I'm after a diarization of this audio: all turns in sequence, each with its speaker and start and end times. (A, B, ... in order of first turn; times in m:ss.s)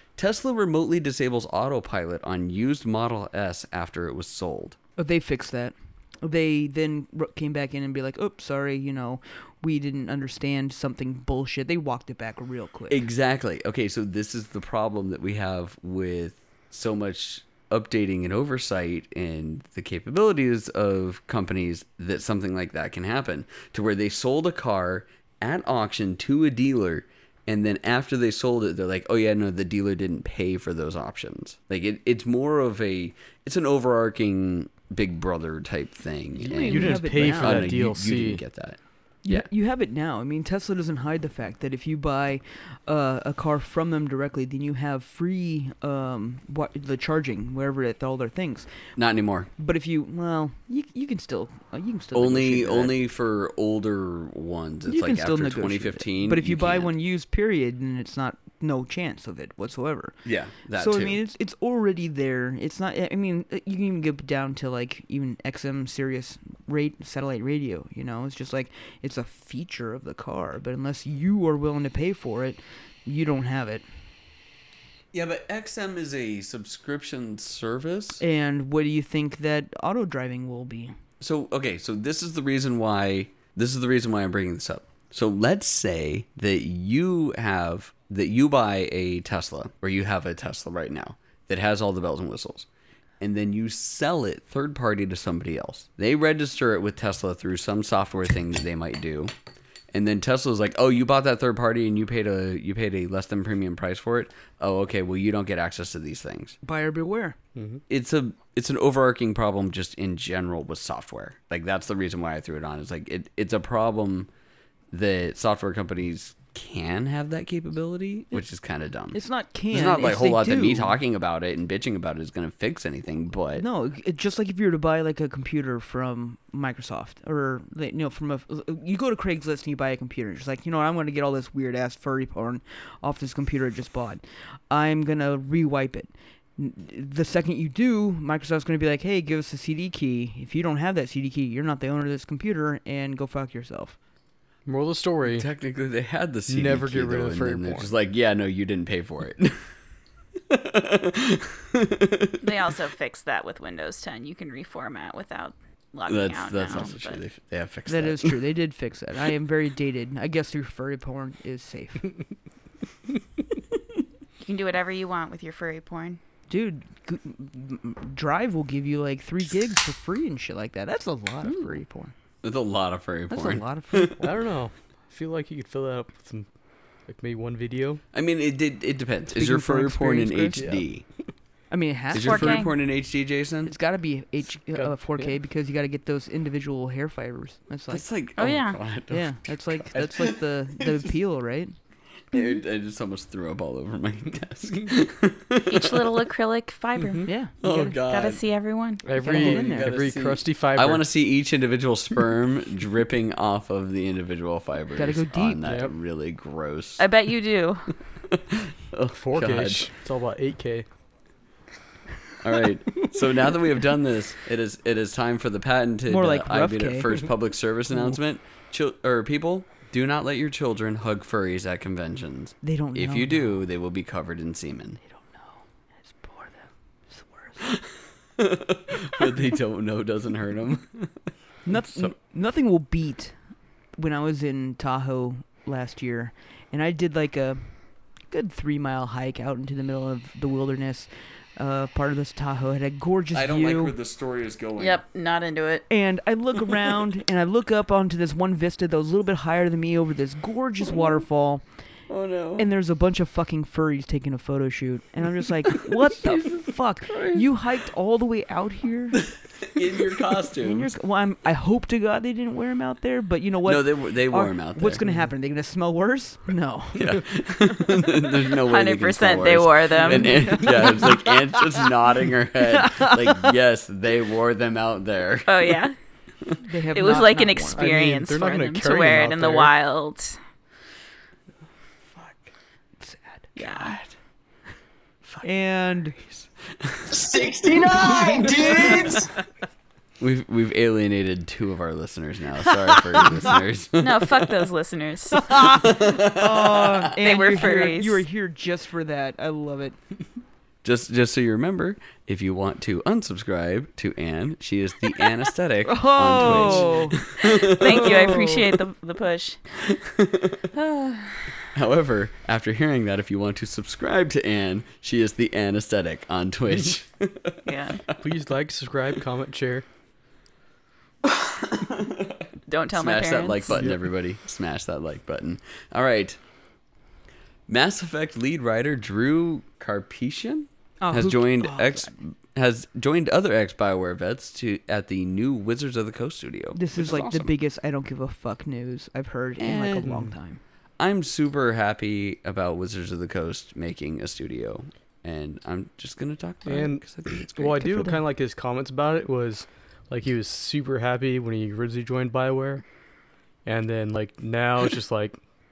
0:00.2-0:04.8 A
0:05.0-0:13.0 B
0:12.9-0:39.5 A
0:36.4-0:37.8 B
0:36.5-0:38.4 C
0:39.2-0:48.7 B
0:49.0-0:49.5 A
0:49.6-0:52.9 B
0:52.1-0:56.9 A
0:54.9-1:00.2 B
1:00.2-1:01.2 A
1:00.7-1:13.8 B
1:15.1-1:18.2 A
1:18.2-1:20.9 B
1:21.2-1:32.7 A
1:33.2-1:39.3 A
1:39.9-1:46.6 A
1:46.6-1:47.4 B
1:47.6-1:47.8 C
1:47.9-1:54.3 A
1:54.9-1:59.2 A
1:59.1-2:01.0 B
1:59.7-2:03.6 A
2:03.5-2:24.0 B
2:24.6-2:25.5 C
2:25.2-2:29.7 A
2:26.5-2:27.9 C
2:30.5-2:32.4 A
2:32.4-2:37.2 D
2:36.1-2:38.4 A
2:37.9-2:42.1 B
2:44.4-2:46.2 D
2:46.5-2:52.1 B
2:52.4-2:54.3 A
2:53.3-2:54.3 B
2:54.2-2:56.5 C
2:57.1-2:58.0 C
2:58.1-3:01.0 A
2:59.3-3:00.7 B
3:00.6-3:00.8 C
3:01.7-3:02.7 B
3:02.1-3:03.7 A
3:02.1-3:02.7 D
3:03.6-3:08.0 B
3:04.7-3:05.3 C
3:07.9-3:11.0 A
3:08.4-3:08.8 D
3:09.1-3:11.7 B
3:12.3-3:16.3 A
3:15.6-3:17.3 D
3:17.0-3:17.3 C
3:17.2-3:18.0 B
3:17.6-3:18.4 A
3:18.0-3:19.0 D
3:19.0-3:21.0 C
3:19.2-3:19.9 B
3:19.2-3:27.1 A
3:25.0-3:25.7 B
3:25.6-3:25.9 C
3:27.0-3:28.0 D
3:28.3-3:29.9 A
3:29.1-3:30.8 C
3:32.4-3:45.0 A
3:36.1-3:37.2 B
3:42.6-3:43.6 B
3:45.0-3:47.6 B
3:48.4-3:51.3 A
3:51.6-3:53.4 B
3:54.0-3:57.8 B
3:58.3-4:03.9 B
4:03.3-4:05.0 A
4:04.8-4:05.8 D
4:05.9-4:11.6 B
4:12.1-4:12.6 A
4:12.6-4:19.2 B
4:15.7-4:17.4 A
4:19.3-4:20.9 A
4:20.6-4:28.0 B
4:23.6-4:25.0 A
4:26.9-4:35.8 A
4:28.5-4:30.9 D
4:30.0-4:31.6 B
4:32.6-4:33.5 B
4:35.5-4:35.9 D
4:36.6-4:37.9 B
4:36.9-4:40.4 D
4:37.8-4:39.7 C
4:43.0-4:43.6 B
4:43.6-4:44.0 D
4:45.4-4:46.2 B
4:46.2-4:47.0 A
4:47.1-4:49.3 E
4:50.2-4:54.7 A
4:54.0-4:55.8 D
4:55.4-5:00.0 B
4:55.6-4:57.8 A
4:57.2-4:58.2 D
5:00.8-5:08.2 A
5:05.8-5:08.8 B
5:07.4-5:09.6 D
5:09.8-5:10.7 A
5:10.8-5:11.5 D
5:11.7-5:18.1 A
5:17.6-5:18.0 D
5:18.2-5:19.8 C
5:21.7-5:26.4 A
5:22.7-5:23.8 D
5:27.7-5:37.5 A
5:31.0-5:32.1 B
5:36.7-5:40.6 B
5:39.6-5:40.2 A
5:41.0-5:48.2 A
5:46.6-5:52.8 C
5:53.6-5:55.4 C